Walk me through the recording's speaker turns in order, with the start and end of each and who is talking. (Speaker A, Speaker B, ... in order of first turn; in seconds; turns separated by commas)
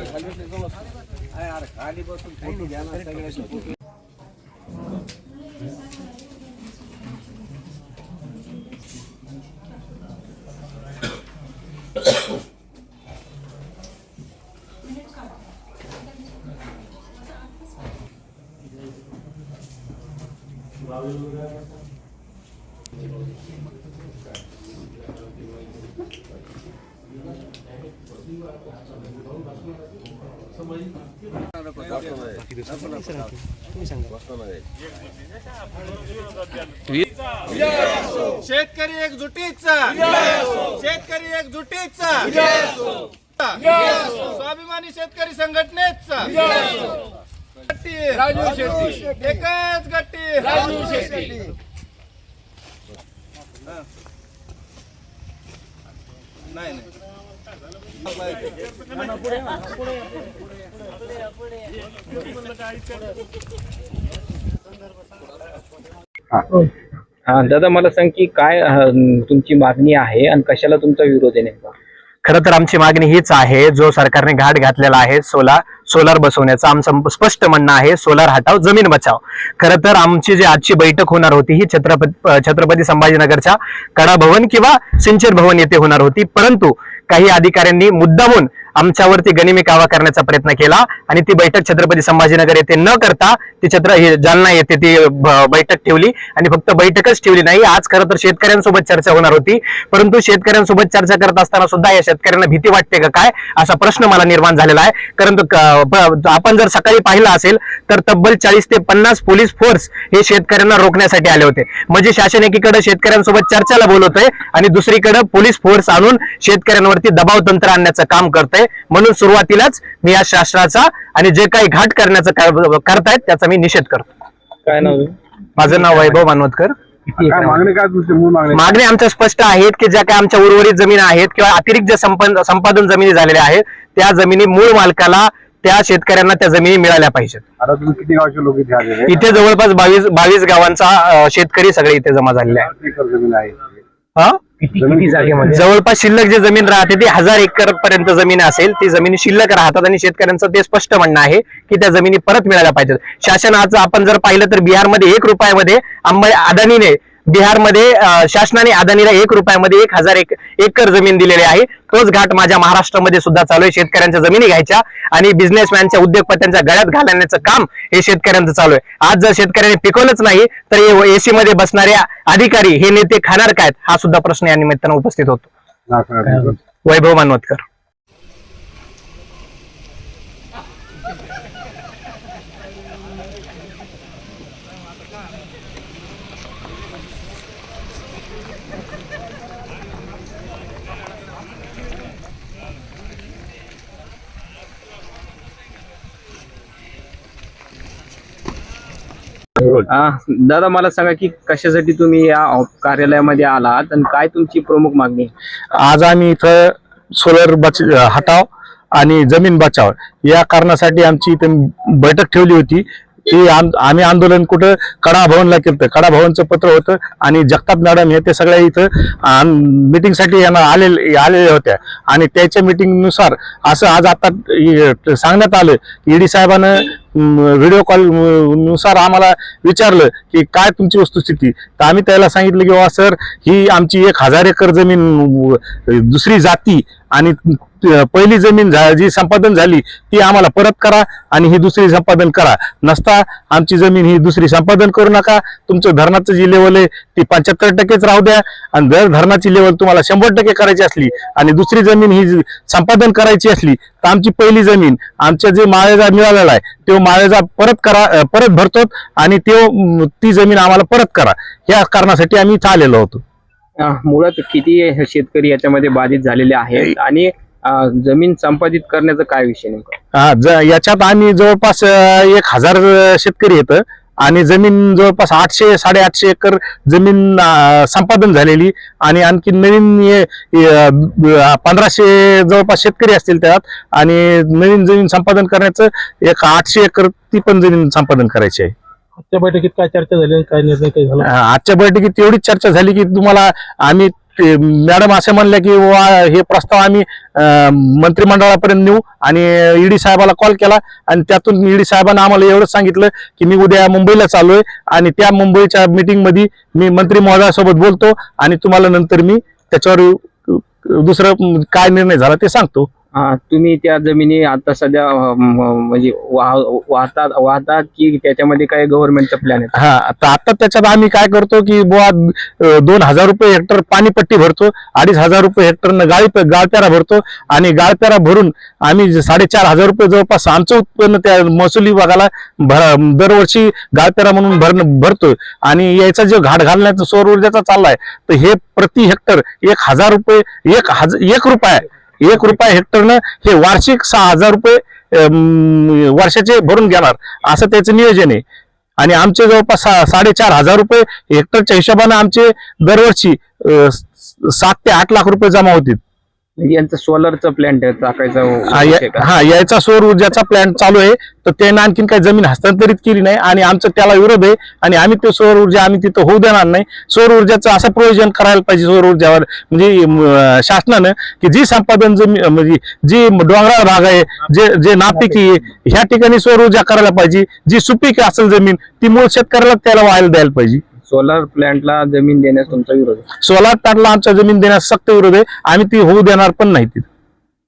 Speaker A: 38.4-42.8, Speaker A: 43.4-46.7, Speaker A: 47.6-51.4, Speaker B: 67.3-71.7, Speaker C: 72.2-124.0, Speaker B: 124.7-125.1, Speaker C: 125.6-126.7, Speaker D: 127.2-128.8, Speaker C: 128.5-137.4, Speaker D: 137.6-139.3, Speaker C: 139.1-142.7, Speaker D: 142.7-143.7, Speaker C: 144.2-175.5, Speaker D: 144.7-145.6, Speaker D: 175.9-176.6, Speaker C: 176.8-177.6, Speaker B: 199.9-205.3, Speaker E: 205.7-263.2, Speaker B: 263.8-270.0, Speaker E: 270.1-288.7, Speaker F: 289.2-291.2, Speaker E: 291.2-312.9, Speaker B: 313.1-319.8, Speaker E: 319.7-348.4, Speaker E: 349.0-356.0, Speaker B: 356.6-359.3, Speaker E: 358.7-380.8, Speaker B: 381.1-383.2, Speaker E: 383.4-387.1